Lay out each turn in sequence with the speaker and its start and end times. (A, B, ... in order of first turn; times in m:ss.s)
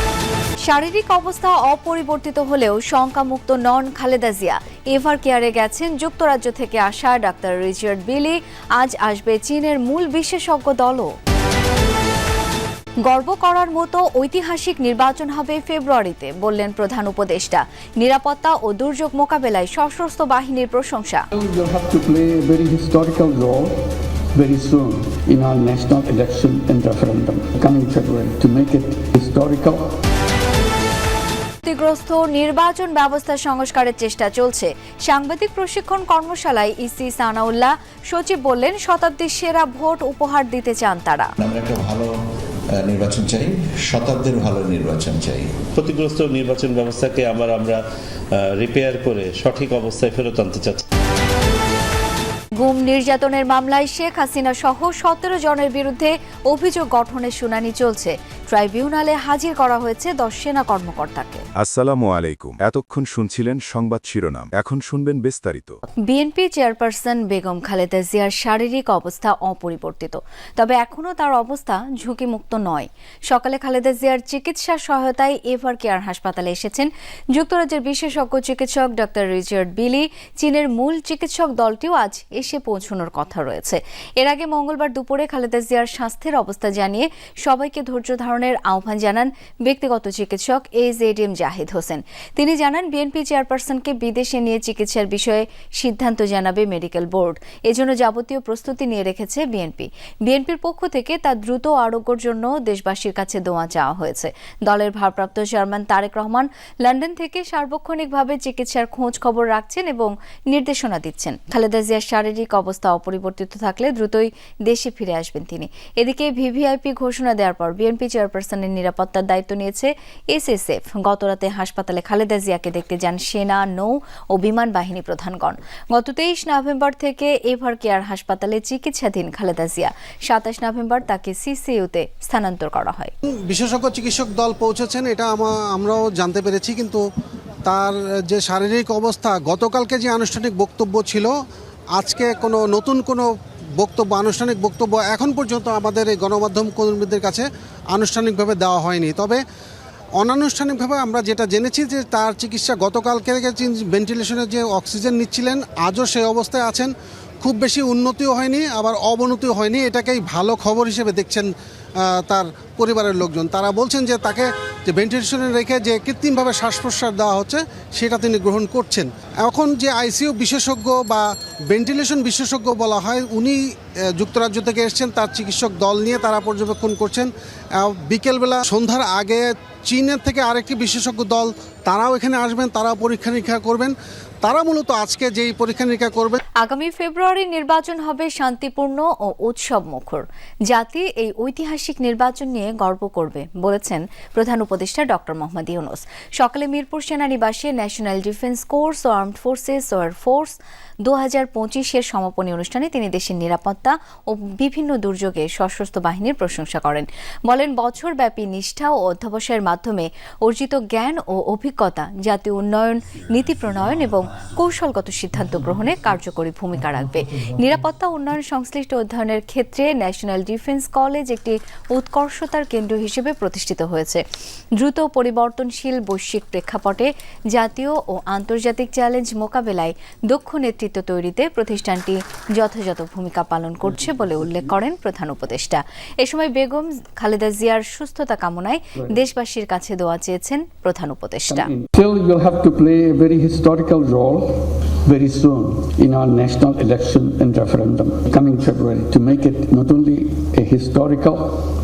0:00.6-0:11.1 A
0:13.0-0:21.2 A
0:21.3-0:23.7 B
0:24.3-0:29.8 B
0:31.6-0:41.3 A
0:41.4-0:42.1 C
0:42.8-0:45.5 C
0:45.8-0:47.8 D
0:48.6-0:50.8 D
0:52.6-1:01.4 A
1:01.6-1:05.8 E
1:06.1-2:13.1 A
2:13.5-2:17.0 F
2:17.6-2:21.3 F
2:21.9-2:29.4 F
2:30.2-2:36.9 F
2:37.4-2:41.5 F
2:42.2-3:06.4 F
3:06.6-3:44.2 A
3:44.8-4:01.7 A
4:01.5-4:11.6 B